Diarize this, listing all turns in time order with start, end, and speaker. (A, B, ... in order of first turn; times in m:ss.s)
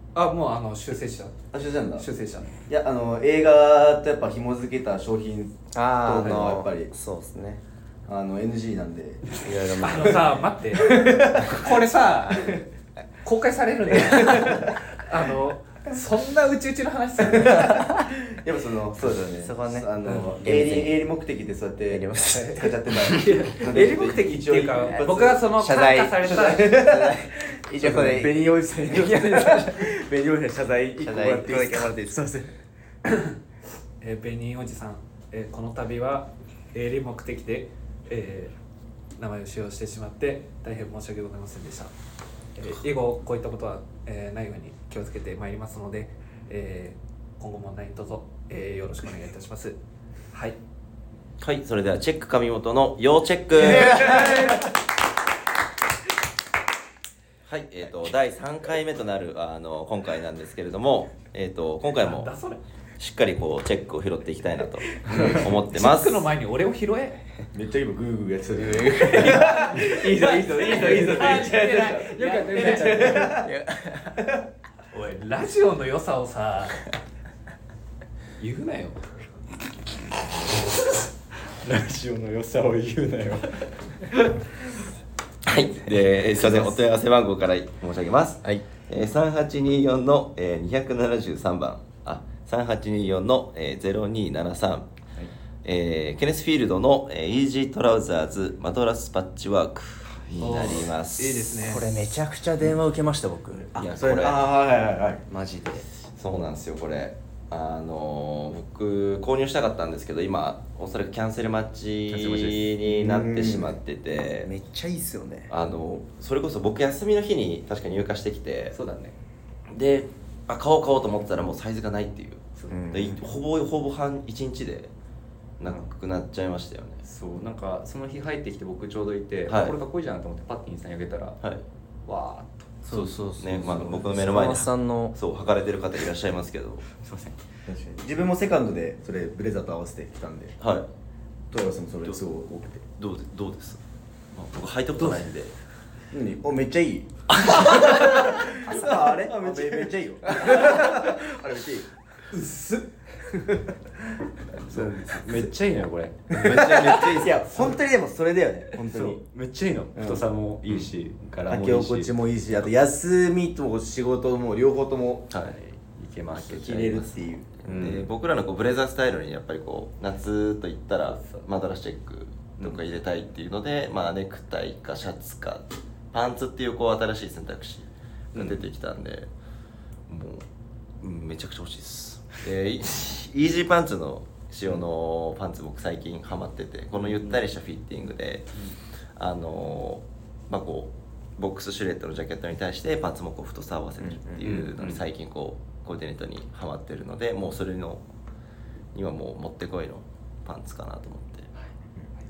0:00.2-0:01.4 A
0:01.5-0:02.1 B
0:02.0-0:02.5 A
0:02.7-0:06.9 B
0:05.7-0:07.6 C
0:08.1-0:10.2 B
0:09.4-0:10.4 C
0:09.8-0:12.6 A
0:10.7-0:11.7 B
0:13.2-0:17.9 A
0:14.0-0:14.7 B
0:17.2-0:25.5 B
0:19.4-0:21.0 C
0:20.1-0:20.3 A
0:21.9-0:22.7 C
0:23.0-0:26.8 A
0:25.6-0:29.8 C
0:26.2-0:27.2 B
0:27.7-0:32.5 B
0:31.0-0:32.2 C
0:34.0-0:38.6 A
0:39.2-0:41.9 A
0:42.6-0:49.8 A
0:50.3-0:50.6 A
0:51.4-0:54.6 D
0:53.9-0:54.6 A
0:57.5-1:02.3 D
1:02.0-1:02.6 A
1:03.0-1:06.3 D
1:05.1-1:05.5 B
1:05.7-1:07.2 A
1:07.5-1:13.5 B
1:09.1-1:13.3 A
1:09.2-1:09.4 C
1:12.1-1:13.4 E
1:13.3-1:14.2 C
1:14.9-1:16.8 A
1:18.4-1:19.0 A
1:21.5-1:24.1 E
1:25.5-1:34.9 D
1:35.6-1:41.5 D
1:40.4-1:41.9 A
1:41.6-1:43.8 C
1:43.8-1:44.5 D
1:43.8-1:45.3 B
1:45.3-1:45.9 C
1:46.2-1:54.5 D
1:52.2-1:52.6 E
1:52.9-1:53.8 B
1:54.4-1:55.5 C
1:55.5-1:58.8 D
1:58.7-1:59.2 E
1:59.7-2:04.9 D
2:02.6-2:02.9 E
2:02.7-2:03.2 C
2:05.6-2:07.0 D
2:07.0-2:11.4 E
2:09.5-2:09.8 D
2:12.1-2:12.8 E
2:12.9-2:15.2 C
2:12.9-2:16.9 D
2:16.9-2:17.4 E
2:17.7-2:20.6 B
2:20.6-2:20.9 D
2:21.5-2:22.8 B
2:23.0-2:23.8 D
2:24.3-2:25.5 D
2:26.1-2:27.1 B
2:27.4-2:28.2 D
2:27.9-2:31.9 B
2:32.3-2:32.9 A
2:34.6-2:36.7 E
2:36.3-2:37.8 D
2:36.3-2:39.2 B
2:38.8-2:42.2 E
2:40.0-2:40.3 B
2:41.5-2:45.3 B
2:45.3-2:45.6 D
2:45.8-2:47.0 E
2:46.3-2:47.5 B
2:46.7-2:59.3 D
2:47.6-2:48.1 E
3:00.1-3:00.4 D
3:01.0-3:08.6 D
3:07.0-3:07.4 E
3:09.2-3:18.0 D
3:14.0-3:14.5 C
3:14.4-3:15.0 E
3:18.9-3:21.5 D